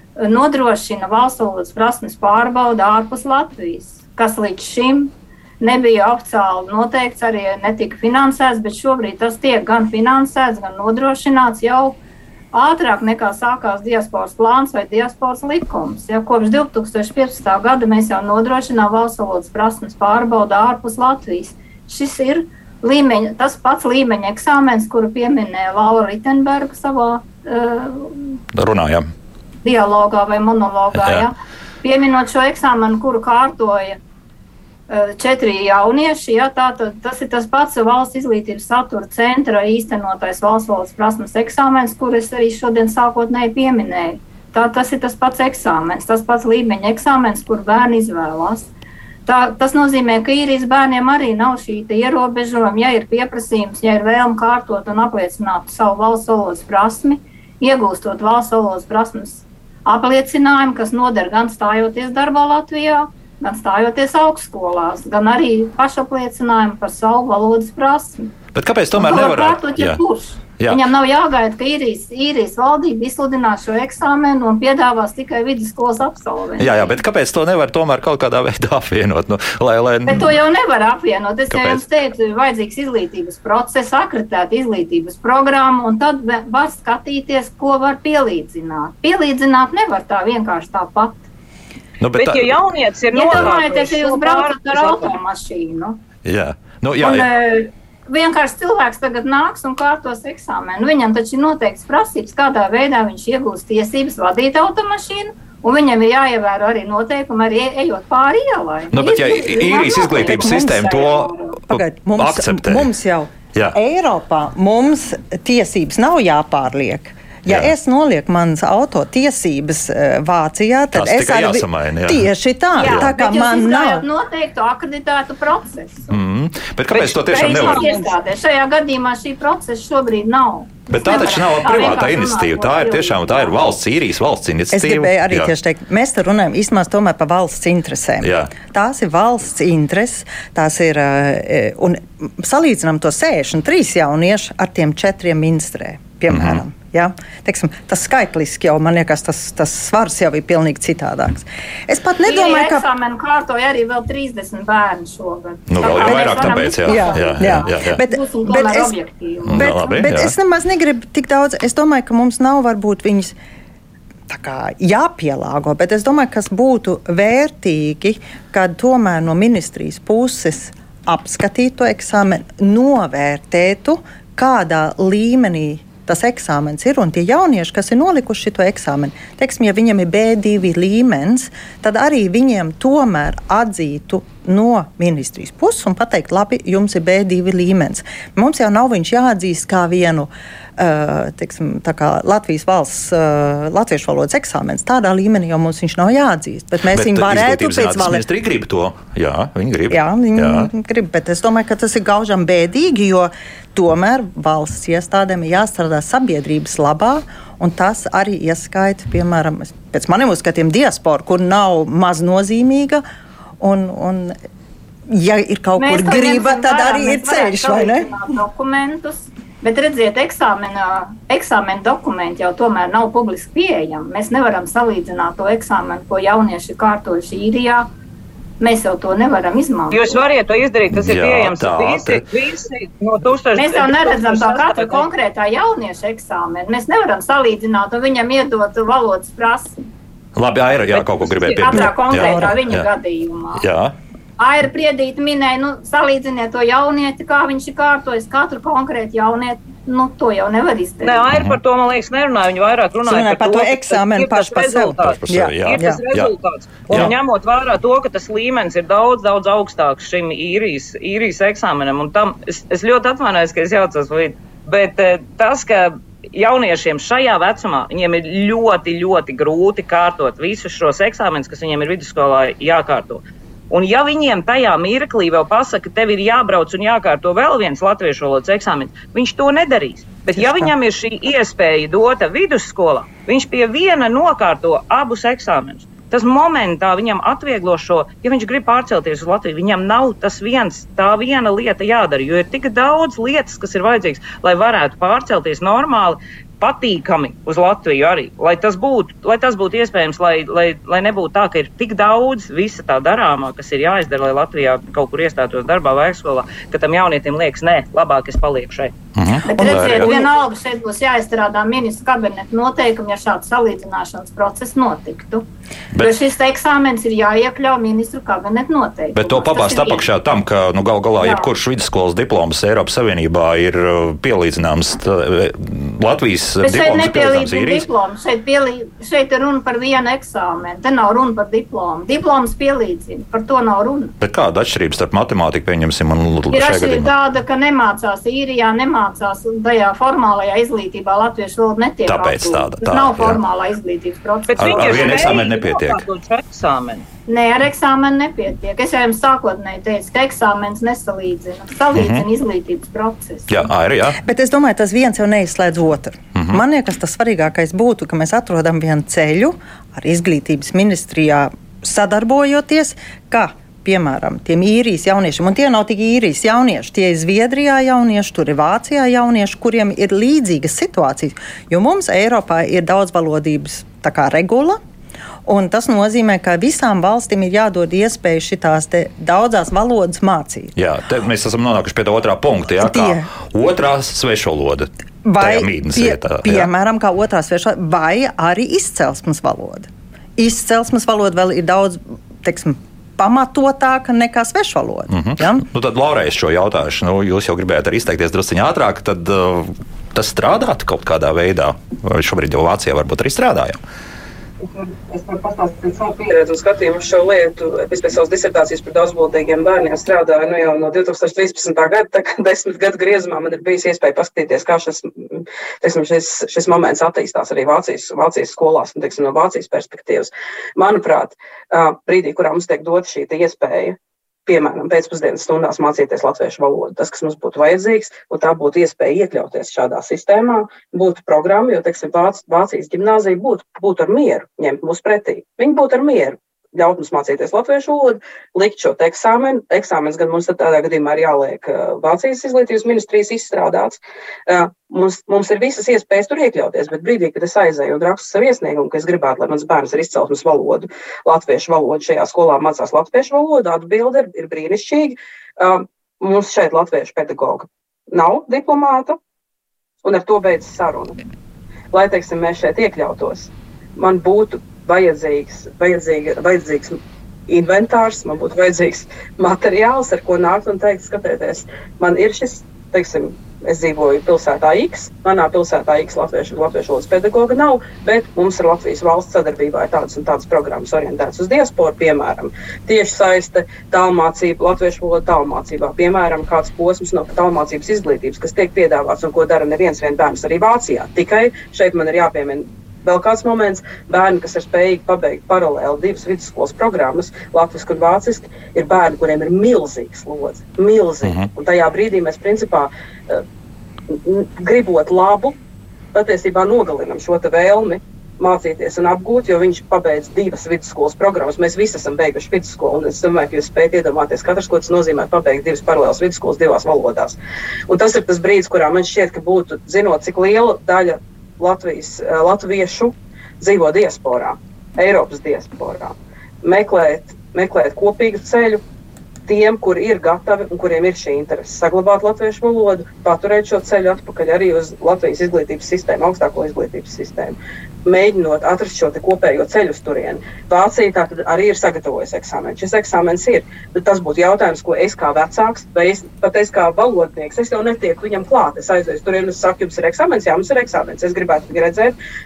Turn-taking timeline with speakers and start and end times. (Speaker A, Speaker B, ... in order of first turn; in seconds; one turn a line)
Speaker A: 0.2-12.0
Speaker A: 12.5-28.4
Speaker B: 28.5-29.1
Speaker A: 29.6-34.0
Speaker B: 30.9-31.2
Speaker A: 34.9-48.7
Speaker A: 49.2-68.3
Speaker B: 68.5-70.0
Speaker A: 68.9-77.0
Speaker B: 70.6-70.8
Speaker B: 76.6-80.4
Speaker A: 80.1-91.2
Speaker B: 81.5-81.8
Speaker B: 92.0-92.6
Speaker C: 92.1-95.1
Speaker A: 93.1-96.0
Speaker B: 96.2-97.2
Speaker A: 97.0-111.6
Speaker B: 108.9-112.9
Speaker D: 110.4-110.8
Speaker D: 111.7-124.0
Speaker B: 120.9-122.3
Speaker A: 122.7-126.2
Speaker B: 122.8-123.1
Speaker B: 126.1-127.9
Speaker C: 126.9-128.1
Speaker A: 127.2-133.7
Speaker B: 130.9-135.5
Speaker D: 134.7-152.9
Speaker B: 138.2-138.5
Speaker B: 146.3-146.6
Speaker A: 152.2-160.0
Speaker B: 155.7-158.0
Speaker D: 155.8-158.9
Speaker B: 159.5-160.3
Speaker D: 159.5-163.3
Speaker D: 164.3-198.2
Speaker B: 196.9-200.7
Speaker D: 199.9-213.0
Speaker D: 213.6-214.4
Speaker D: 215.1-218.1
Speaker A: 215.8-227.9
Speaker A: 228.6-230.2
Speaker C: 229.9-235.0
Speaker B: 230.9-232.2
Speaker A: 233.6-239.8
Speaker B: 240.4-242.9
Speaker A: 240.9-243.7
Speaker D: 241.7-242.5
Speaker B: 243.6-243.9
Speaker A: 244.4-251.3
Speaker C: 251.0-308.9
Speaker B: 251.3-251.6
Speaker D: 253.0-256.0
Speaker B: 255.2-256.3
Speaker D: 280.4-280.7
Speaker B: 309.1-310.2
Speaker A: 309.5-315.5
Speaker D: 309.6-310.0
Speaker A: 316.0-320.1
Speaker B: 319.1-327.9
Speaker A: 321.2-321.5
Speaker A: 326.6-334.1
Speaker B: 334.2-337.1
Speaker A: 336.5-345.5
Speaker B: 342.1-343.4
Speaker C: 344.5-347.1
Speaker B: 344.6-346.0
Speaker A: 347.3-353.7
Speaker B: 351.9-352.2
Speaker B: 353.5-354.2
Speaker D: 354.2-374.8
Speaker D: 375.4-380.7
Speaker B: 380.8-386.7
Speaker D: 382.8-383.3
Speaker D: 385.2-395.6
Speaker B: 395.1-403.8
Speaker E: 404.6-459.2
Speaker E: 460.0-461.2
Speaker E: 461.9-467.0
Speaker E: 467.5-503.4
Speaker E: 504.1-505.6
Speaker E: 506.1-517.4
Speaker E: 517.9-528.8
Speaker E: 529.5-552.1